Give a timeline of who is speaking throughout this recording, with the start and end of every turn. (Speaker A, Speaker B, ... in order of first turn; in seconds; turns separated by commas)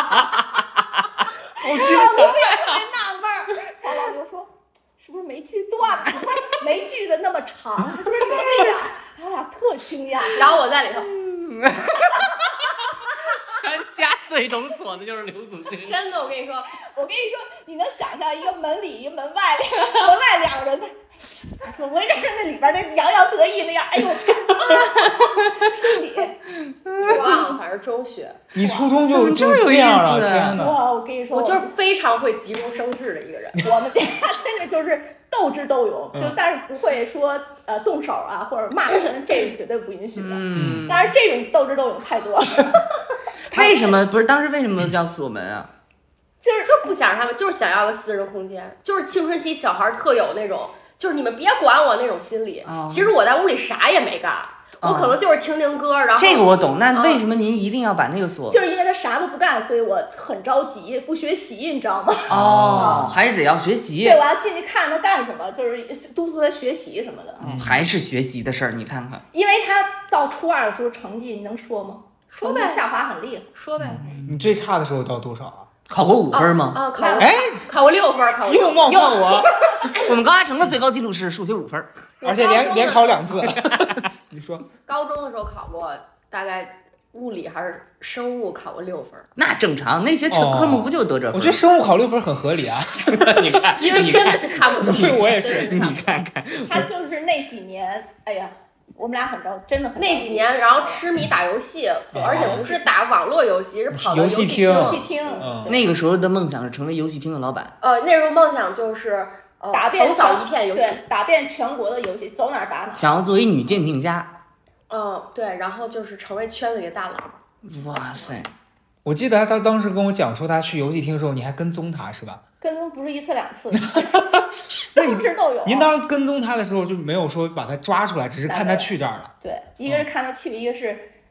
Speaker A: 1.6-2.8, Speaker B: 1.6-2.4, Speaker C: 1.6-10.6, Speaker A: 8.0-8.8, Speaker D: 10.3-11.1, Speaker A: 11.0-16.0, Speaker D: 15.8-16.8, Speaker C: 16.8-26.4, Speaker A: 24.6-25.6, Speaker A: 26.6-27.4, Speaker D: 27.0-28.4, Speaker C: 27.0-27.6, Speaker B: 28.5-30.8, Speaker C: 28.6-29.0, Speaker A: 29.1-30.6, Speaker C: 30.5-31.7, Speaker D: 31.3-33.6, Speaker C: 33.6-42.9, Speaker A: 40.1-41.1, Speaker B: 40.5-40.9, Speaker A: 43.5-45.7, Speaker C: 43.5-44.0, Speaker C: 46.4-46.8, Speaker D: 46.6-57.2, Speaker A: 52.6-53.1, Speaker A: 54.8-55.2, Speaker A: 56.2-58.6, Speaker C: 58.5-63.1, Speaker B: 62.3-63.2, Speaker A: 62.3-64.2, Speaker C: 64.0-67.5, Speaker A: 67.4-69.2, Speaker B: 67.4-67.9, Speaker C: 69.3-73.5, Speaker D: 72.3-72.8, Speaker D: 73.6-74.2, Speaker B: 73.8-75.7, Speaker A: 74.0-74.5, Speaker A: 75.9-76.9, Speaker D: 76.3-80.2, Speaker C: 76.9-77.4, Speaker B: 77.2-77.6, Speaker B: 78.4-79.9, Speaker A: 79.8-81.9, Speaker D: 82.2-83.2, Speaker B: 82.2-84.6, Speaker C: 82.3-83.0, Speaker A: 83.5-84.0, Speaker D: 84.9-89.3, Speaker A: 89.4-91.6, Speaker B: 90.3-94.2, Speaker A: 93.0-96.9, Speaker D: 93.8-96.1, Speaker B: 94.8-95.9, Speaker C: 96.6-101.0, Speaker D: 100.0-105.4, Speaker B: 102.1-102.7, Speaker A: 102.2-102.6, Speaker C: 102.4-102.8, Speaker B: 103.9-105.8, Speaker C: 104.6-105.9, Speaker A: 105.7-107.8, Speaker D: 107.8-111.0, Speaker C: 109.7-113.1, Speaker A: 113.0-114.3, Speaker D: 114.9-117.4, Speaker A: 117.6-118.5, Speaker D: 118.1-118.4, Speaker B: 119.0-122.4, Speaker C: 122.6-126.0, Speaker B: 123.7-129.3, Speaker C: 128.5-131.1